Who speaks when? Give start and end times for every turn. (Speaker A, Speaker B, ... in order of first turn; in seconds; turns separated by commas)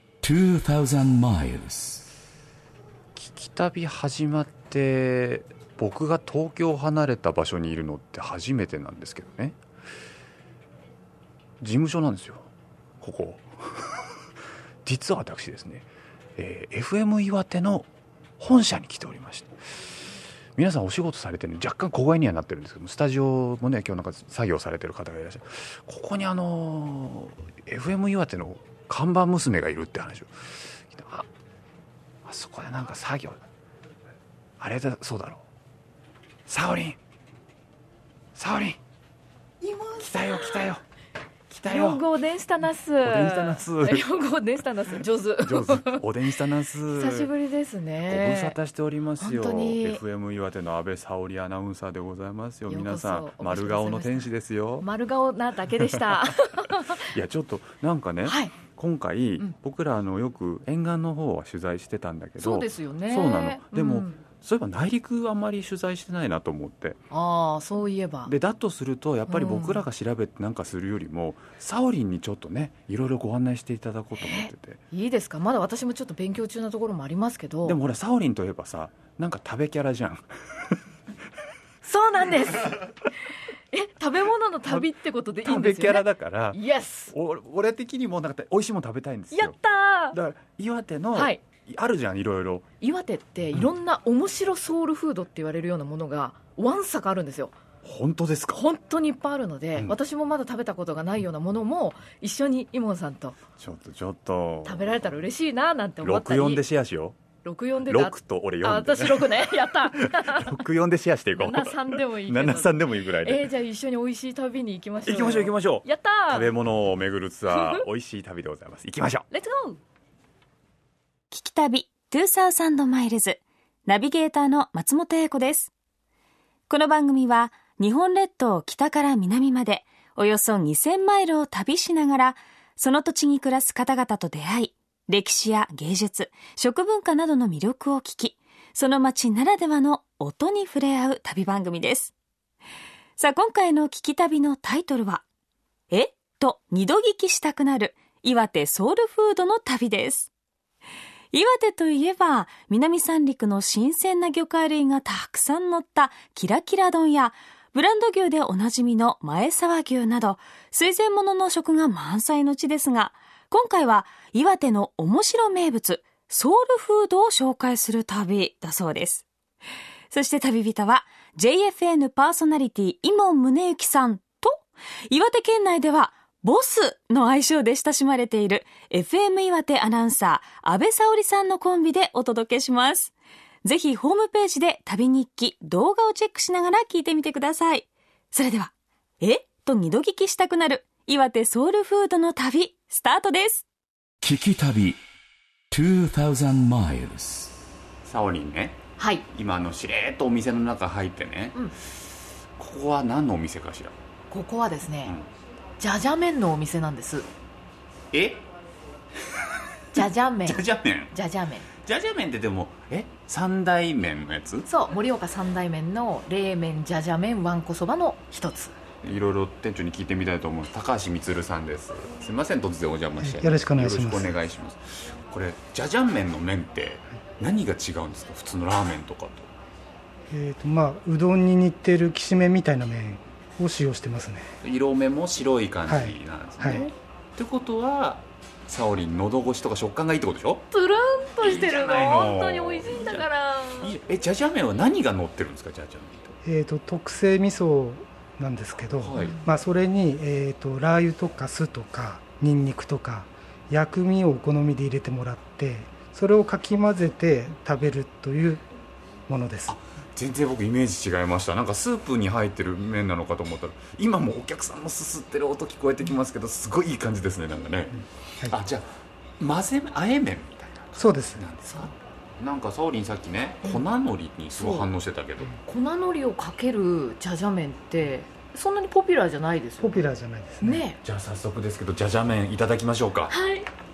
Speaker A: 0.2-2.1, Speaker B: 3.2-9.6, Speaker B: 11.6-12.5, Speaker B: 13.0-14.0, Speaker B: 14.8-17.9, Speaker B: 18.4-19.8, Speaker B: 20.6-31.3, Speaker B: 32.3-33.4, Speaker B: 34.6-35.4, Speaker B: 36.5-37.0, Speaker B: 38.3-38.8, Speaker C: 39.6-40.6, Speaker B: 40.0-40.8, Speaker B: 41.5-42.0, Speaker C: 41.6-46.0, Speaker B: 43.0-44.0, Speaker B: 45.4-47.3, Speaker C: 46.9-48.5, Speaker B: 48.0-54.9, Speaker C: 49.2-50.0, Speaker C: 52.7-57.0, Speaker B: 57.0-67.0, Speaker C: 58.2-58.6, Speaker C: 62.4-64.2, Speaker C: 67.1-68.3, Speaker B: 68.2-74.8, Speaker C: 69.3-69.8, Speaker C: 74.2-77.8, Speaker B: 77.6-80.8, Speaker C: 81.8-82.8, Speaker C: 83.7-87.1, Speaker B: 85.4-86.6, Speaker B: 87.1-89.5, Speaker C: 89.3-90.2, Speaker B: 90.1-92.6, Speaker C: 91.1-91.4, Speaker C: 92.8-97.5, Speaker B: 97.8-98.6, Speaker C: 98.5-103.4, Speaker B: 103.6-105.0, Speaker C: 104.6-106.6, Speaker B: 106.0-107.2, Speaker C: 107.4-110.6, Speaker B: 107.9-113.5, Speaker C: 111.3-116.5, Speaker B: 115.1-119.2, Speaker C: 117.5-117.8, Speaker C: 119.3-119.8, Speaker D: 121.3-125.7, Speaker D: 126.7-142.1, Speaker D: 143.2-145.2, Speaker D: 145.9-150.3, Speaker D: 151.3-169.2, Speaker D: 170.1-183.1, Speaker D: 183.6-193.6, Speaker A: 194.2-195.0, Speaker A: 195.7-197.6, Speaker B: 198.0-202.0, Speaker C: 199.0-199.2, Speaker B: 202.6-203.9, Speaker C: 204.3-205.1, Speaker C: 205.8-207.2, Speaker B: 208.1-208.4, Speaker B: 209.9-211.1, Speaker C: 209.9-211.7, Speaker B: 211.8-214.7, Speaker C: 214.7-218.7, Speaker B: 219.0-229.5, Speaker E: 223.2-224.4, Speaker E: 230.3-234.5, Speaker B: 234.6-240.6, Speaker E: 235.9-236.9, Speaker C: 240.7-243.9, Speaker B: 241.4-243.2, Speaker B: 243.8-246.3, Speaker E: 246.4-258.6, Speaker B: 249.0-249.3, Speaker C: 249.1-249.4, Speaker E: 259.3-259.8, Speaker B: 259.7-275.5, Speaker E: 270.9-271.4, Speaker C: 274.6-274.9, Speaker C: 275.6-280.0, Speaker E: 279.8-280.8, Speaker C: 280.6-281.0, Speaker B: 281.0-283.3, Speaker C: 283.3-283.7